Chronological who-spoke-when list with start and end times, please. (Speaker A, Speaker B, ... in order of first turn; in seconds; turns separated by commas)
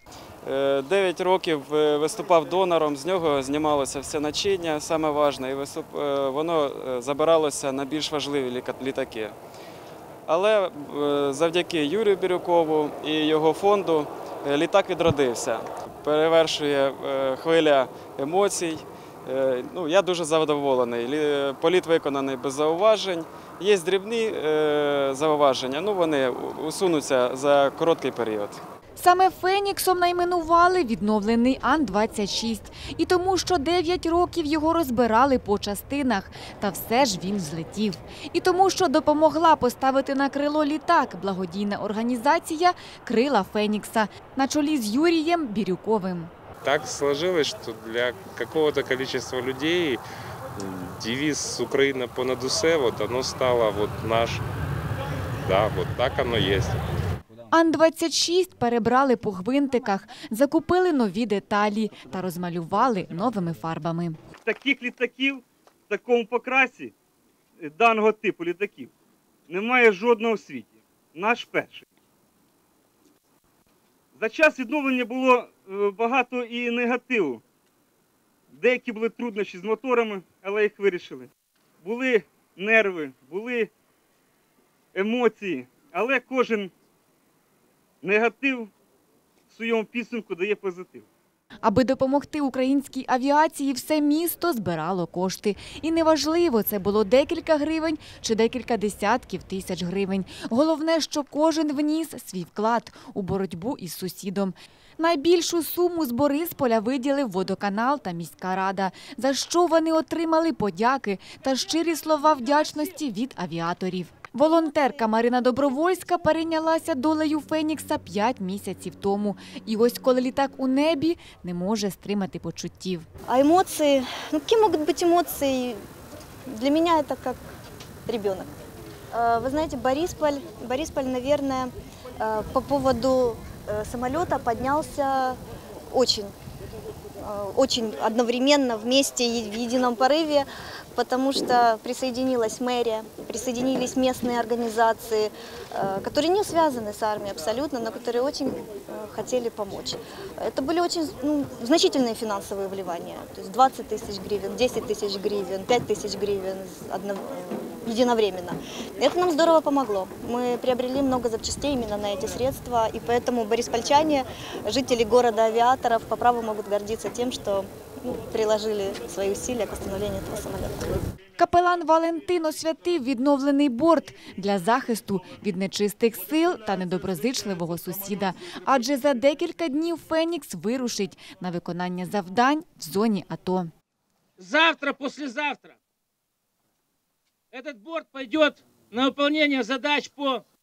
Speaker A: 0.4-9.4, Speaker A: 10.3-28.6, Speaker B: 29.0-46.3, Speaker C: 46.6-50.0, Speaker C: 50.6-54.4, Speaker C: 55.5-56.8, Speaker B: 57.5-64.2, Speaker D: 64.5-67.0, Speaker D: 67.6-68.9, Speaker D: 69.5-71.9, Speaker D: 74.2-77.4, Speaker D: 78.5-81.3, Speaker D: 81.8-83.7, Speaker D: 84.9-86.7, Speaker D: 88.0-88.7, Speaker D: 89.5-91.1, Speaker B: 91.6-123.1, Speaker E: 123.3-125.8, Speaker E: 126.5-127.4, Speaker E: 128.1-128.5, Speaker E: 129.1-135.4, Speaker E: 135.9-136.3, Speaker E: 137.2-171.0, Speaker B: 171.4-183.7, Speaker F: 184.4-185.8, Speaker F: 187.5-190.4